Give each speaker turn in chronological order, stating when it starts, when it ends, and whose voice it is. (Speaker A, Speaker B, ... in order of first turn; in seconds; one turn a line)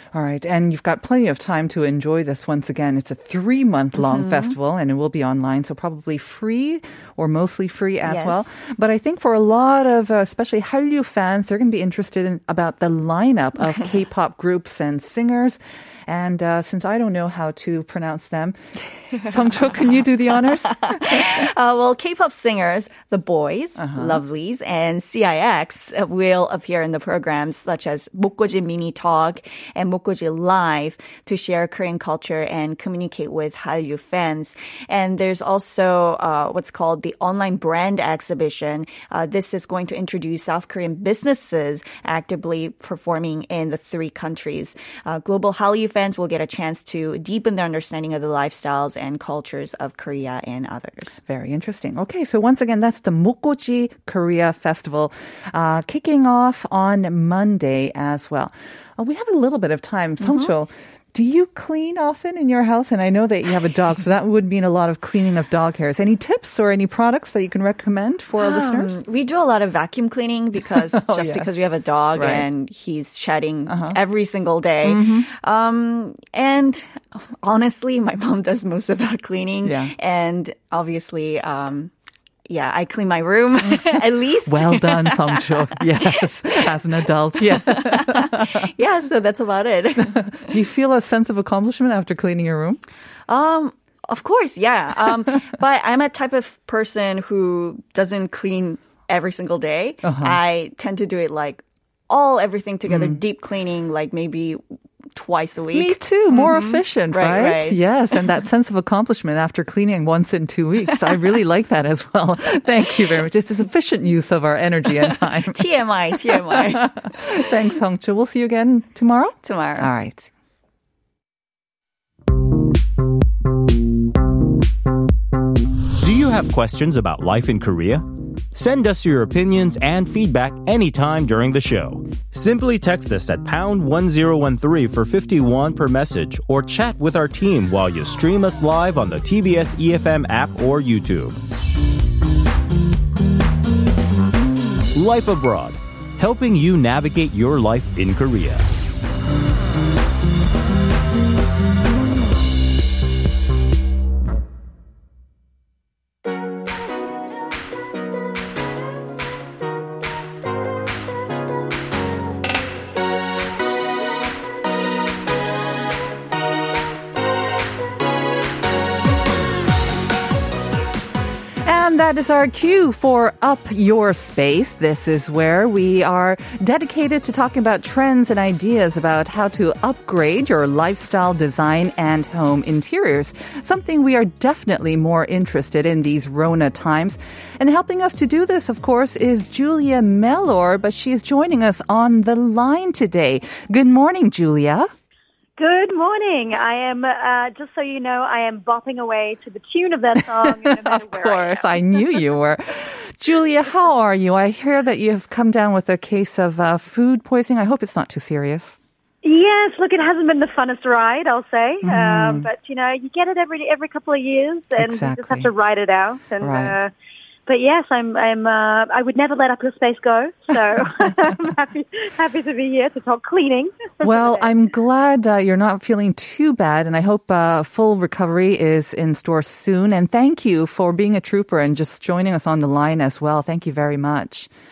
Speaker A: 0.1-18.6
Speaker B: 4.0-4.5
Speaker B: 8.0-8.5
Speaker A: 19.2-21.3
Speaker B: 20.7-51.2
Speaker A: 23.8-24.2
Speaker A: 51.2-69.0
Speaker B: 60.2-60.5
Speaker B: 68.4-81.9
Speaker A: 70.9-71.5
Speaker A: 72.1-72.5
Speaker A: 73.7-74.0
Speaker A: 74.8-75.3
Speaker A: 79.6-79.9
Speaker B: 82.5-86.7
Speaker A: 83.6-88.7
Speaker B: 87.5-90.5
Speaker A: 90.0-92.8
Speaker B: 93.3-104.6
Speaker A: 100.0-100.4
Speaker A: 102.9-103.2
Speaker B: 105.1-107.8
Speaker A: 105.7-115.7
Speaker B: 115.5-117.5
Speaker A: 116.3-120.3
Speaker B: 119.4-119.9
Speaker C: 126.0-141.4
Speaker C: 144.9-148.7
Speaker A: 171.6-194.9
Speaker D: 195.6-201.8
Speaker A: 200.5-208.8
Speaker D: 209.2-216.9
Speaker A: 211.8-212.5
Speaker A: 214.8-215.5
Speaker A: 216.4-216.8
Speaker D: 217.5-224.5
Speaker A: 224.0-234.5